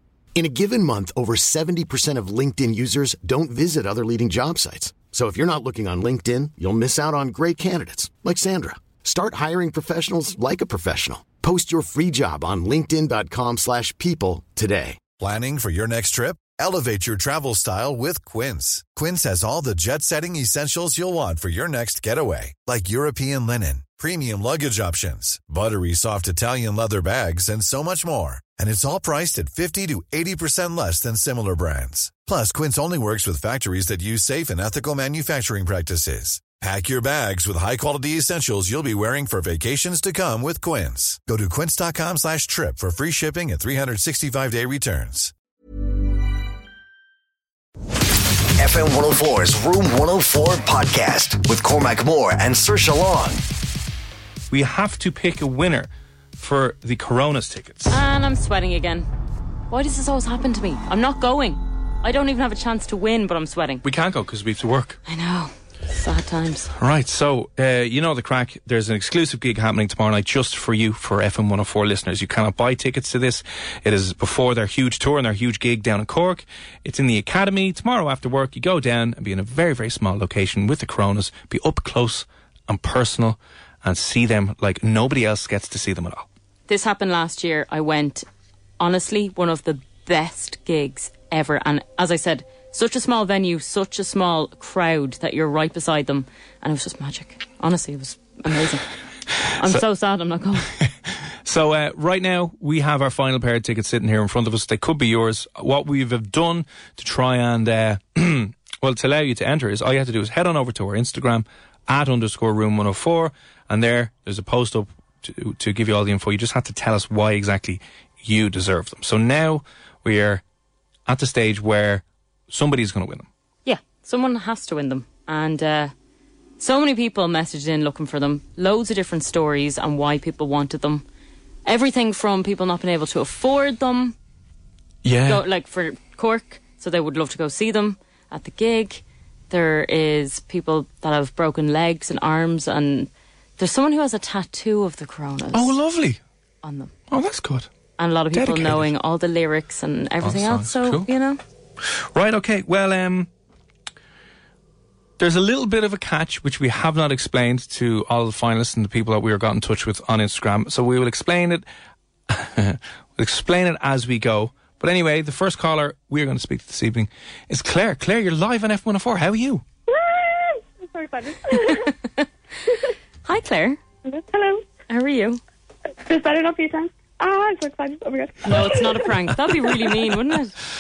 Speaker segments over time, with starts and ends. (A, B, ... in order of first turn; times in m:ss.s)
0:00.4-0:15.0 A
0:15.2-0:45.3 B
0:48.6-0:53.4 C
0:54.5-0:58.0 D
0:57.9-0:59.1 E
0:59.7-1:03.8 E
1:03.8-1:05.0 D
1:05.1-1:06.7 E
1:06.8-1:26.3 D
1:26.7-1:28.2 E
1:28.8-1:38.9 E
1:39.4-1:40.7 E
1:41.4-2:00.4 D
2:01.1-2:03.3 D
2:03.6-2:05.9 E
2:06.6-2:11.0 E
2:11.6-2:14.2 E
2:15.0-2:15.4 D
2:15.3-2:25.7 E
2:25.5-2:26.2 D
2:26.6-2:26.9 E
2:27.1-2:27.7 D
2:28.0-2:31.4 E
2:28.3-2:28.9 D
2:30.2-2:31.1 D
2:31.8-2:33.3 D
2:35.2-2:41.7 D
2:42.3-2:49.6 D
2:49.9-2:51.9 F
2:51.7-2:52.2 E
2:53.2-2:53.8 E
2:54.0-2:54.6 F
2:54.9-2:55.4 E
2:56.1-2:58.8 F
2:58.4-3:00.6 E